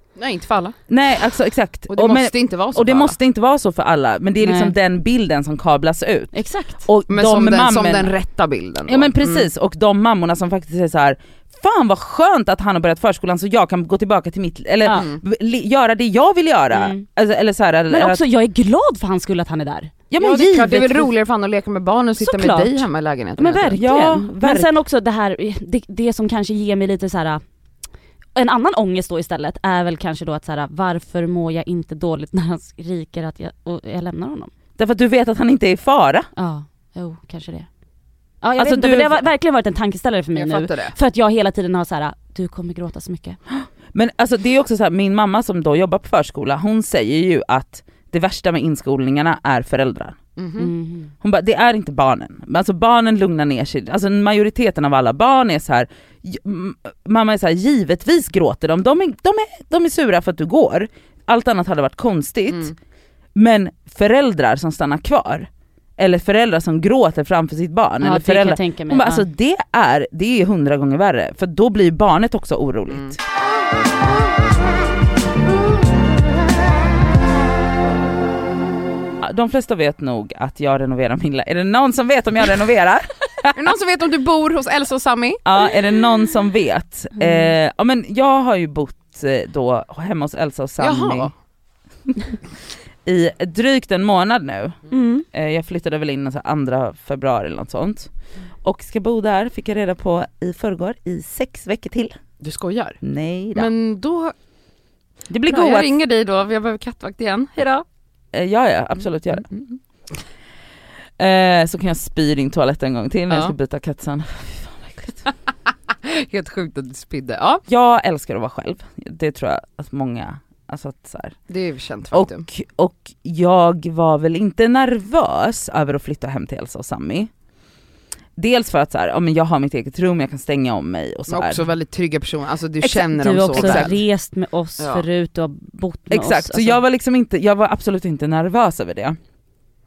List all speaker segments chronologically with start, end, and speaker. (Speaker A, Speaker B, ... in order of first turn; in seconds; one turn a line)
Speaker A: 0.2-0.8
Speaker B: 0.9-8.1
Speaker A: 1.9-3.2
Speaker C: 4.4-4.7
Speaker C: 6.3-6.8
Speaker A: 7.1-9.5
Speaker B: 8.9-18.2
Speaker A: 14.9-15.2
Speaker C: 16.7-17.0
Speaker C: 17.9-19.9
Speaker B: 20.1-21.1
Speaker A: 20.2-23.8
Speaker C: 22.2-22.9
Speaker C: 23.4-27.4
Speaker B: 23.7-24.8
Speaker C: 28.4-34.5
Speaker B: 34.8-36.3
Speaker C: 36.4-37.7
Speaker C: 38.4-43.4
Speaker B: 38.6-39.2
Speaker A: 40.3-41.0
Speaker B: 43.5-50.2
Speaker A: 50.4-50.7
Speaker C: 50.6-51.1
Speaker B: 51.2-62.7
Speaker B: 63.4-73.2
Speaker C: 68.0-69.3
Speaker A: 72.9-73.2
Speaker B: 79.2-83.8
Speaker A: 83.5-85.4
Speaker B: 85.5-91.3
Speaker C: 87.2-87.5
Speaker A: 90.8-91.3
Speaker B: 93.0-94.8
Speaker C: 94.9-95.2
Speaker B: 95.3-98.1
Speaker B: 98.6-102.1
Speaker A: 102.4-103.0
Speaker B: 103.0-103.7
Speaker A: 103.5-104.3
Speaker B: 105.3-106.0
Speaker A: 105.5-107.8
Speaker B: 108.3-109.5
Speaker A: 109.3-109.7
Speaker B: 111.2-115.3
Speaker A: 116.0-117.6
Speaker B: 117.7-121.4
Speaker A: 121.5-122.5
Speaker B: 122.1-127.3
Speaker B: 128.4-131.6
Speaker A: 131.3-134.0
Speaker C: 132.8-136.8
Speaker B: 133.5-133.9
Speaker A: 134.8-135.0
Speaker B: 136.1-139.2